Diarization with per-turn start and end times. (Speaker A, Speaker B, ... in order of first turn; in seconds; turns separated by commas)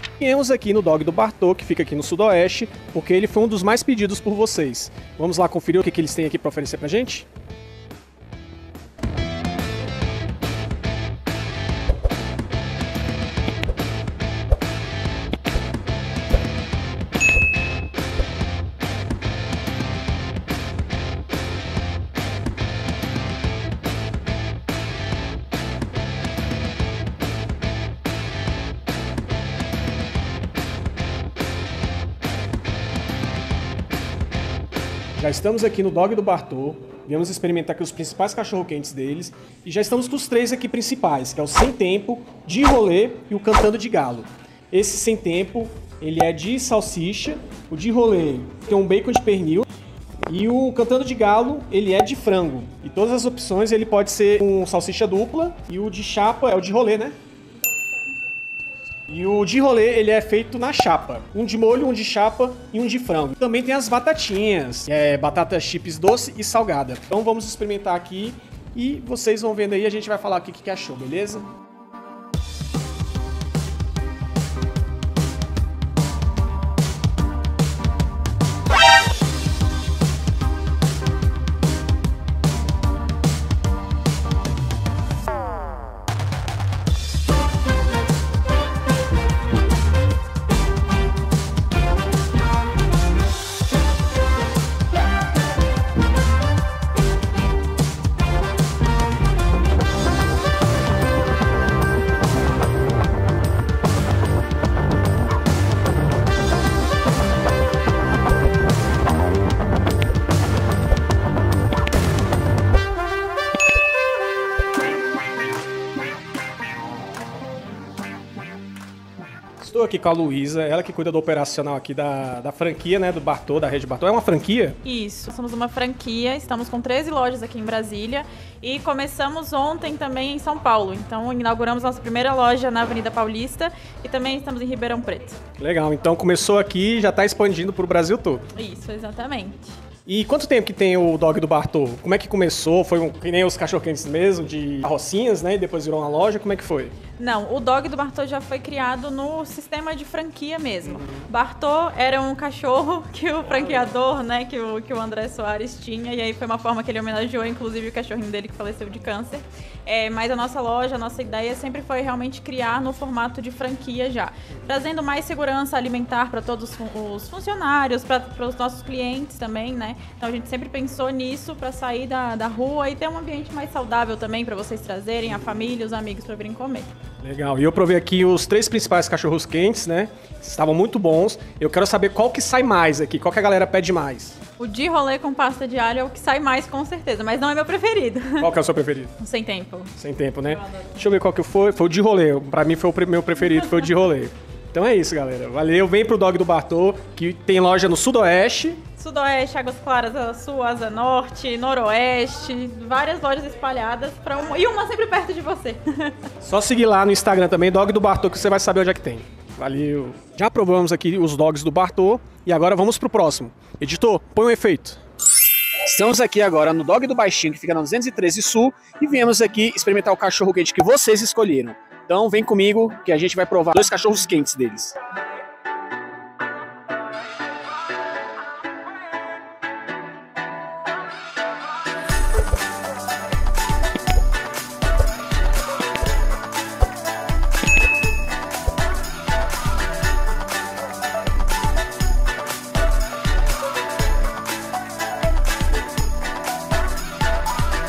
Speaker A: 0.2-7.2, Speaker A: 35.1-49.6, Speaker A: 50.3-57.1, Speaker A: 59.1-71.5, Speaker A: 119.6-124.8, Speaker B: 124.8-135.4, Speaker A: 135.6-138.4, Speaker B: 138.5-139.7, Speaker A: 140.1-146.9, Speaker B: 147.2-176.9, Speaker A: 150.9-151.2, Speaker A: 177.2-184.4, Speaker B: 184.6-188.4, Speaker A: 188.4-189.1, Speaker B: 189.2-189.9, Speaker A: 190.0-198.8, Speaker B: 190.5-190.8, Speaker B: 199.0-206.3, Speaker A: 206.4-215.0, Speaker A: 215.8-224.9